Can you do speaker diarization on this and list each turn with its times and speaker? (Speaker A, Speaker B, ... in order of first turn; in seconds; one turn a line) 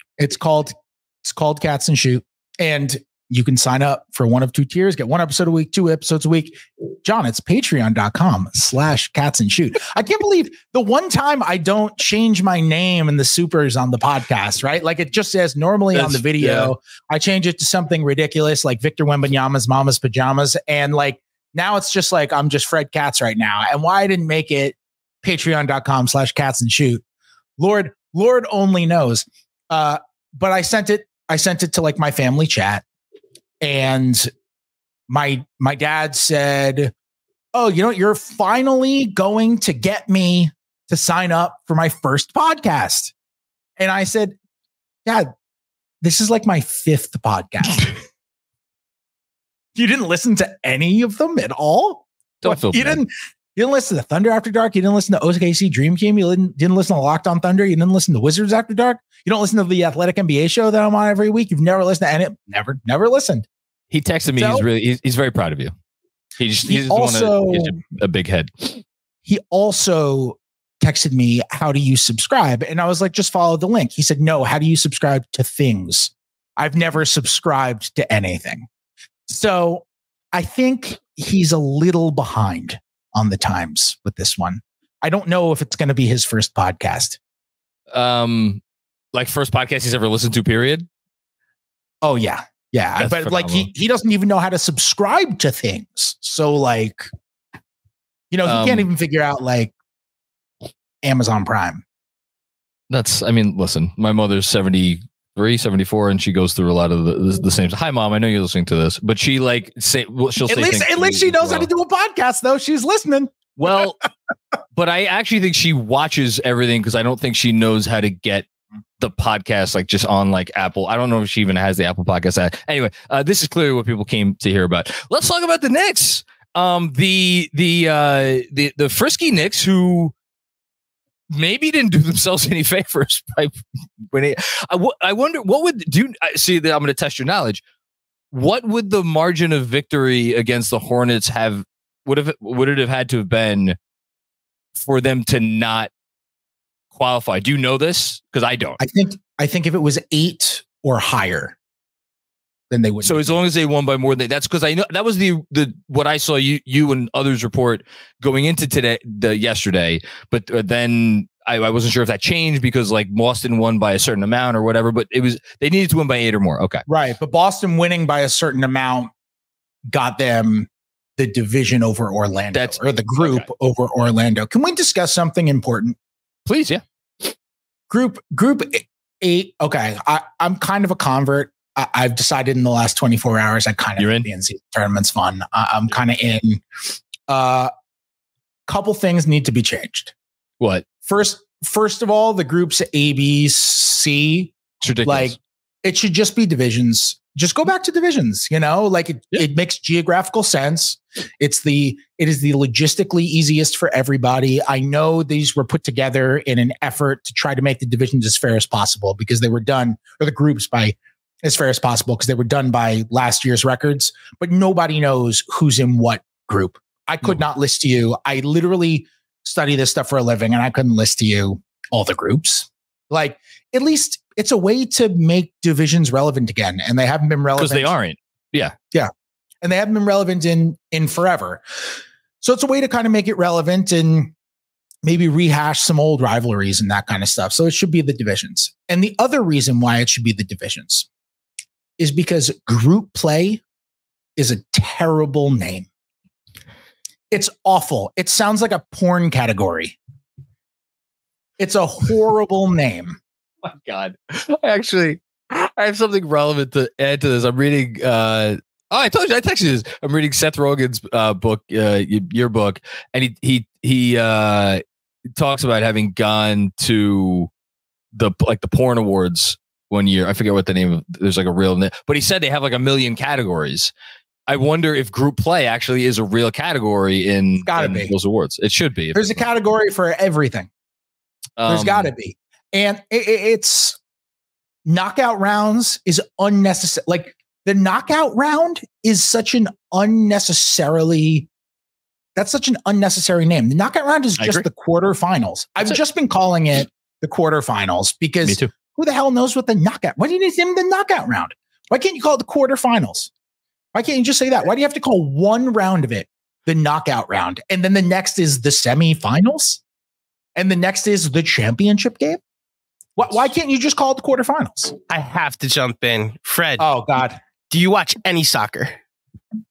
Speaker A: 0.2-27.0
Speaker B: 15.9-16.7
Speaker A: 27.6-32.8
Speaker A: 33.6-34.3
Speaker A: 35.1-36.9
Speaker A: 37.5-43.1
Speaker A: 43.8-44.4
Speaker A: 45.0-45.3
Speaker A: 46.0-47.9
Speaker A: 49.8-63.5
Speaker B: 52.4-53.0
Speaker B: 63.9-65.7
Speaker A: 64.4-64.7
Speaker B: 66.4-68.8
Speaker A: 66.7-67.8
Speaker A: 69.3-78.7
Speaker A: 79.3-87.2
Speaker B: 87.9-88.6
Speaker B: 89.1-90.9
Speaker A: 92.0-97.1
Speaker B: 93.0-93.7
Speaker A: 98.3-99.7
Speaker B: 98.5-98.9
Speaker A: 101.0-101.8
Speaker B: 102.9-111.7
Speaker A: 110.4-114.0
Speaker B: 113.6-114.0
Speaker B: 114.8-118.5
Speaker B: 119.0-130.1
Speaker B: 131.3-133.6
Speaker B: 134.1-137.6
Speaker B: 138.3-143.8
Speaker B: 144.8-145.9
Speaker B: 146.9-148.8
Speaker A: 148.8-151.6
Speaker A: 152.7-153.4
Speaker B: 153.0-166.8
Speaker A: 166.9-169.1
Speaker A: 169.9-176.0
Speaker B: 172.5-173.5
Speaker B: 176.5-176.8
Speaker A: 177.9-186.6
Speaker B: 184.0-184.3
Speaker A: 187.3-187.7
Speaker A: 188.7-190.1
Speaker B: 190.6-190.9
Speaker A: 191.0-194.5
Speaker B: 194.8-195.4
Speaker A: 195.1-227.9
Speaker B: 227.6-228.8
Speaker A: 229.6-231.6
Speaker A: 232.4-234.3
Speaker A: 235.0-241.1
Speaker A: 242.0-243.6
Speaker A: 244.4-245.9
Speaker A: 247.3-250.0
Speaker A: 251.6-253.2
Speaker B: 253.6-264.8
Speaker B: 265.4-267.5
Speaker B: 268.1-273.9
Speaker B: 274.5-279.5
Speaker A: 277.6-278.1
Speaker A: 279.1-280.7
Speaker B: 281.6-282.1
Speaker A: 281.7-284.0
Speaker A: 284.9-291.5
Speaker A: 292.4-303.3
Speaker B: 294.4-294.6
Speaker A: 303.9-309.8
Speaker A: 310.6-312.4
Speaker A: 313.2-314.9
Speaker C: 315.1-316.9
Speaker A: 316.8-317.4
Speaker C: 317.7-319.0